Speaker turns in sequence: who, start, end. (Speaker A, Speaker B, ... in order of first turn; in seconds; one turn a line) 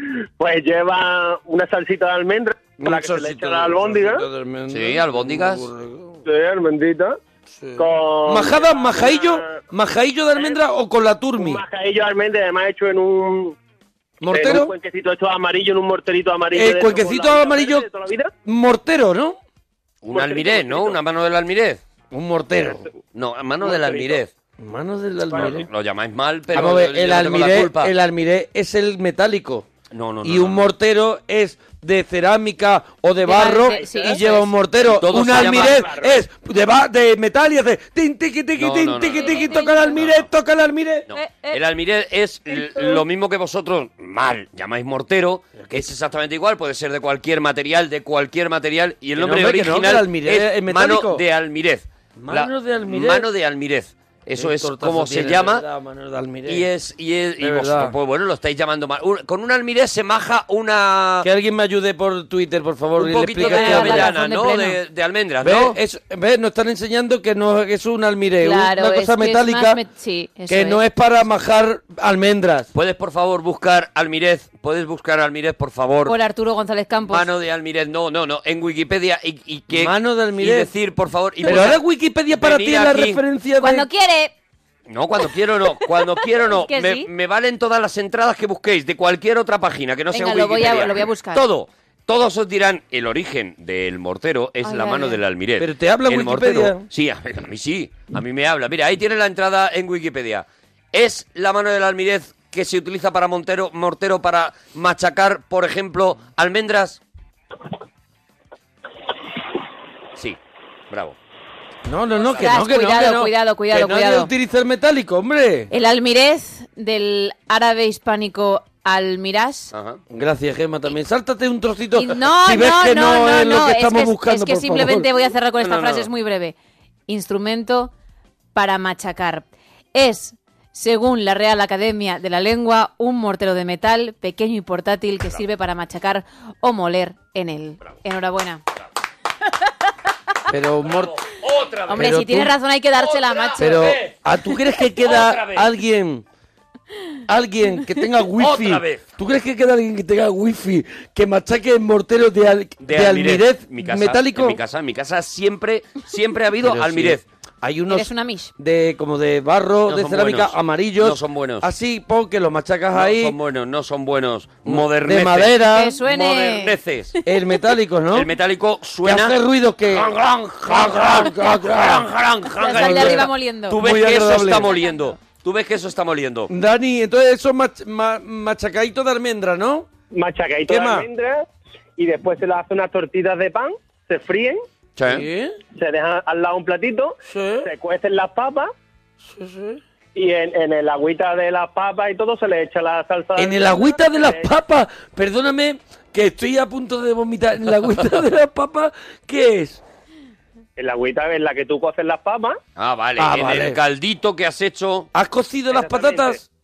Speaker A: 0.4-4.2
Speaker B: 2.8-6.2
Speaker C: 4.7-5.7
Speaker A: 6.2-7.2
Speaker B: 7.5-11.6
Speaker A: 7.8-9.6
Speaker A: 10.3-10.6
Speaker A: 11.4-13.6
Speaker B: 14.2-14.7
Speaker A: 14.2-18.3
Speaker B: 16.5-17.9
Speaker B: 18.4-19.4
Speaker C: 20.0-21.8
Speaker A: 20.1-21.0
Speaker B: 22.1-22.9
Speaker C: 23.1-24.3
Speaker A: 23.6-24.2
Speaker B: 24.6-25.7
Speaker A: 25.3-25.6
Speaker C: 25.3-27.9
Speaker B: 26.5-29.7
Speaker C: 29.9-30.7
Speaker B: 30.2-41.1
Speaker D: 33.2-34.5
Speaker C: 35.0-35.9
Speaker A: 35.3-36.2
Speaker C: 38.6-40.3
Speaker D: 39.1-40.0
Speaker C: 41.1-55.6
Speaker D: 41.1-41.6
Speaker D: 42.5-43.0
Speaker B: 45.6-45.8
Speaker B: 49.1-51.2
Speaker B: 52.1-53.3
Speaker B: 54.3-56.7
Speaker C: 56.5-61.3
Speaker B: 57.4-57.9
Speaker B: 61.2-64.1
Speaker C: 63.0-65.8
Speaker D: 63.4-64.8
Speaker B: 65.4-69.8
Speaker D: 68.4-70.8
Speaker B: 70.5-72.7
Speaker C: 72.7-76.2
Speaker D: 76.0-77.3
Speaker C: 77.1-83.2
Speaker B: 79.7-80.7
Speaker B: 81.4-83.9
Speaker D: 83.6-84.3
Speaker C: 84.9-107.0
Speaker D: 86.0-87.1
Speaker D: 90.1-91.4
Speaker D: 94.6-95.2
Speaker B: 95.6-96.8
Speaker C: 110.9-111.2
Speaker B: 111.8-115.7
Speaker C: 112.2-112.5
Speaker D: 112.4-114.3
Speaker D: 115.7-119.7
Speaker C: 119.7-120.0
Speaker B: 120.1-125.1
Speaker D: 121.9-126.5
Speaker C: 125.6-126.1
Speaker D: 127.1-127.9
Speaker D: 128.5-138.6
Speaker B: 140.5-141.2
Speaker C: 140.8-142.2
Speaker D: 141.9-144.0
Speaker B: 141.9-142.5
Speaker C: 143.0-144.1
Speaker B: 143.6-146.2
Speaker C: 145.0-145.7
Speaker B: 147.3-154.6
Speaker C: 148.4-149.0
Speaker C: 152.8-157.2
Speaker B: 156.6-163.4
Speaker D: 157.9-158.5
Speaker C: 159.9-161.7
Speaker C: 162.9-167.2
Speaker B: 164.6-166.0
Speaker D: 165.7-166.8
Speaker B: 167.2-168.3
Speaker C: 168.1-176.5
Speaker B: 169.0-174.7
Speaker D: 172.6-173.8
Speaker B: 176.5-179.9
Speaker A: 180.1-184.6
Speaker B: 180.7-181.1
Speaker C: 184.9-185.2
Speaker B: 185.1-185.6
Speaker A: 185.7-188.7
Speaker B: 187.2-187.7
Speaker B: 189.2-189.8
Speaker A: 190.1-194.5
Speaker B: 193.3-199.8
Speaker A: 200.8-202.6
Speaker C: 202.8-205.1
Speaker B: 203.2-203.8
Speaker B: 205.1-206.4
Speaker A: 205.7-206.4